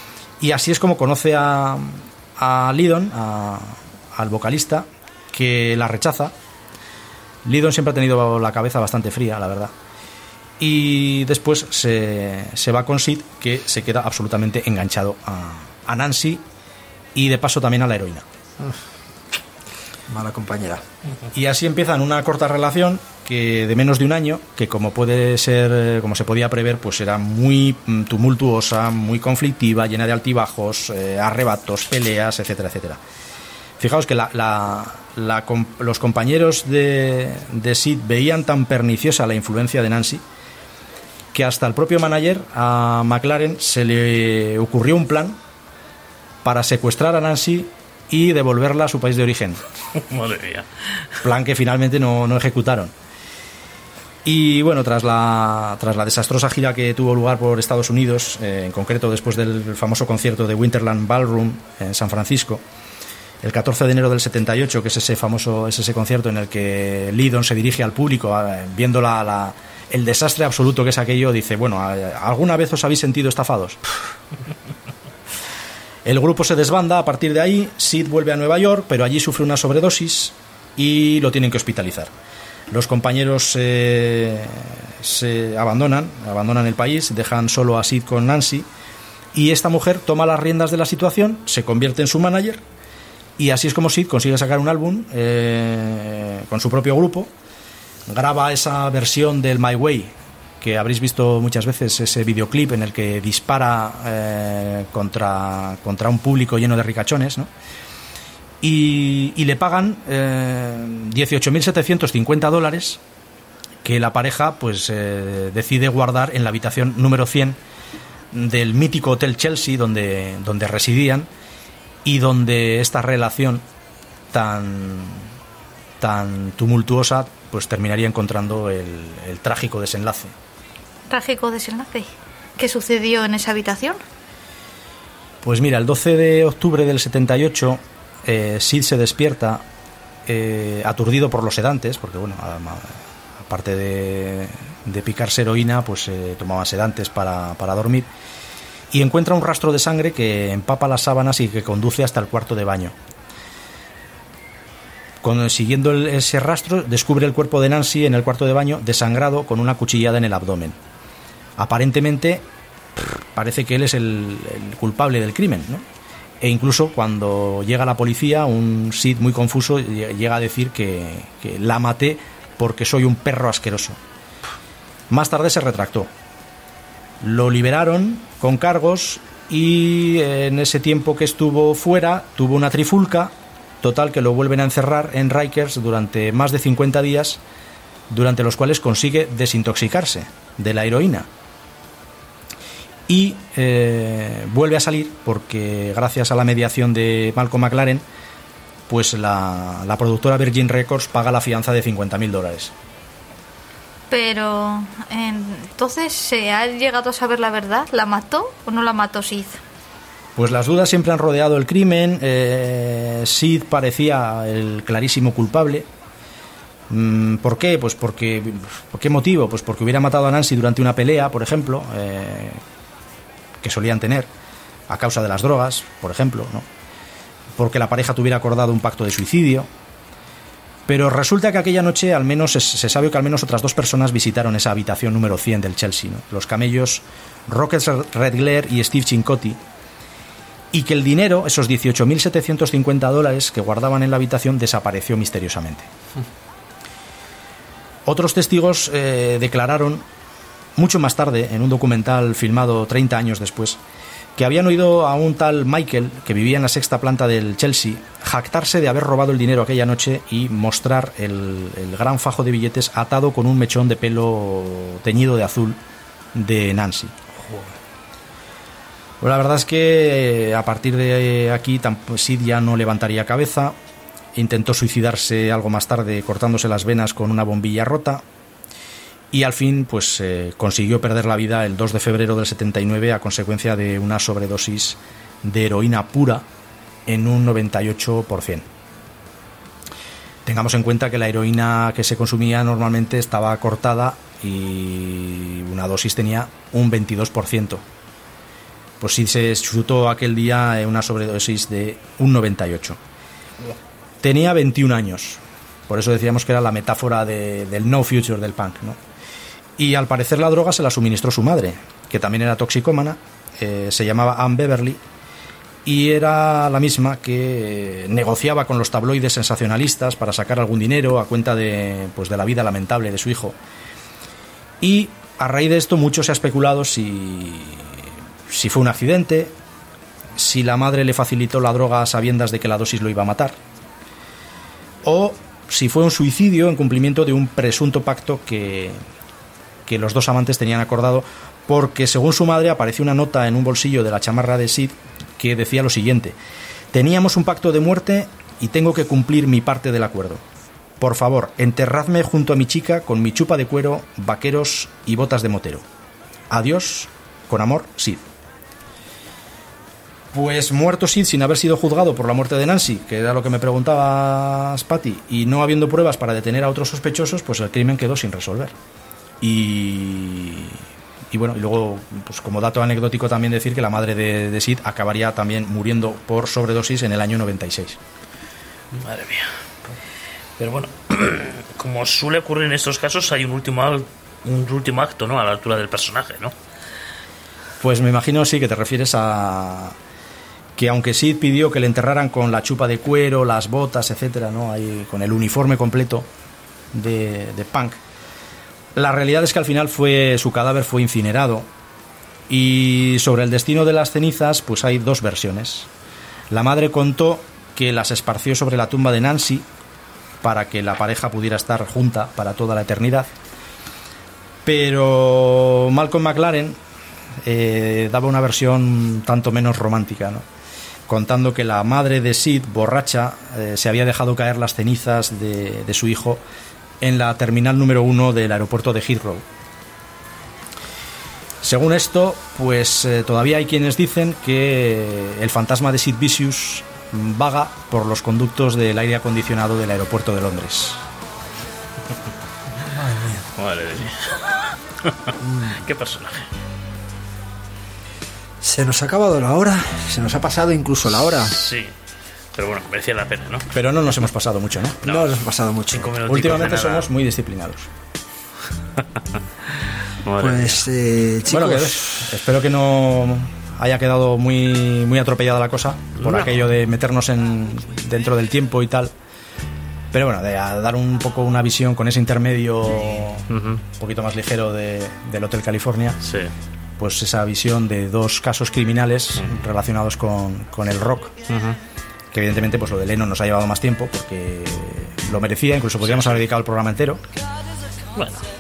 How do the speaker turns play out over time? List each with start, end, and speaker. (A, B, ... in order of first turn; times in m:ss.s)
0:00.4-0:06.3 A
0:07.4-0:09.7 A
0:10.6-0:16.4 A
0:17.2-0:18.3 A
0:20.1-0:20.8 B
0:21.3-0:33.0 A
0:33.8-0:40.2 A
0:41.3-0:45.4 A
0:46.4-0:49.6 A
0:50.0-0:50.7 C
0:51.2-0:52.9 A
0:54.2-1:02.6 A
1:03.4-1:13.8 A
1:16.0-1:22.1 A
1:22.7-1:28.7 A
1:29.3-1:32.6 A
1:33.4-1:37.3 A
1:38.1-1:47.5 A
1:48.6-1:53.0 A
1:53.8-1:57.6 A
1:58.3-2:01.3 A
2:02.0-2:03.6 A
2:04.3-2:05.2 A
2:06.0-2:10.3 A
2:11.1-2:14.0 D
2:15.4-2:19.6 A
2:20.3-2:28.1 A
2:28.9-2:33.0 A
2:35.2-2:40.8 A
2:41.6-2:42.4 A
2:43.0-2:45.8 A
2:46.4-2:54.0 A
2:55.1-2:56.1 A
2:57.2-3:07.4 A
3:08.1-3:11.3 A
3:13.1-3:18.0 A
3:18.9-3:22.7 A
3:24.1-3:29.6 D
3:30.4-3:35.9 A
3:36.9-3:42.6 A
3:43.6-3:44.3 A
3:44.9-3:46.7 A
3:47.6-3:49.7 A
3:50.9-3:59.6 A
4:00.7-4:05.9 A
4:08.0-4:10.0 A
4:10.8-4:13.8 A
4:14.4-4:25.8 A
4:26.3-4:27.1 A
4:29.2-4:33.8 A
4:34.4-4:38.2 A
4:39.3-4:46.4 A
4:47.1-4:48.7 A
4:50.4-4:57.8 A
4:59.0-5:03.0 A
5:04.2-5:09.0 A
5:09.8-5:15.0 A
5:15.8-5:23.6 A
5:24.8-5:29.6 A
5:30.4-5:33.6 A
5:35.0-5:39.0 A
5:39.9-5:46.4 A
5:46.9-5:50.4 A
5:51.0-5:55.8 A
5:56.5-5:58.2 A
6:00.3-6:08.7 A
6:09.4-6:18.0 A
6:18.9-6:20.0 C
6:20.6-6:26.5 C
6:27.8-6:30.0 A
6:30.8-6:36.3 A
6:36.9-6:38.0 A
6:39.0-6:41.7 A
6:42.5-6:45.9 A
6:46.5-6:49.7 A
6:50.4-6:53.3 A
6:54.6-6:56.8 A
6:57.4-7:00.4 A
7:01.1-7:06.4 A
7:07.0-7:09.4 A
7:11.6-7:21.0 A
7:22.8-7:23.5 B
7:23.6-7:26.5 C
7:25.4-7:25.8 B
7:28.6-7:31.6 B
7:31.3-7:31.9 C
7:32.5-7:33.7 C
7:33.7-7:35.0 A
7:35.0-7:35.3 C
7:35.0-7:36.2 B
7:35.9-7:37.1 C
7:36.3-7:37.9 A
7:40.2-7:40.9 C
7:40.4-7:42.3 B
7:41.5-7:49.1 A
7:46.2-7:46.6 C
7:50.1-7:56.2 A
7:53.5-7:53.8 C
7:56.2-7:56.5 C
7:57.0-8:01.3 A
8:01.5-8:01.8 C
8:02.3-8:07.2 A
8:06.0-8:06.4 C
8:08.2-8:08.4 C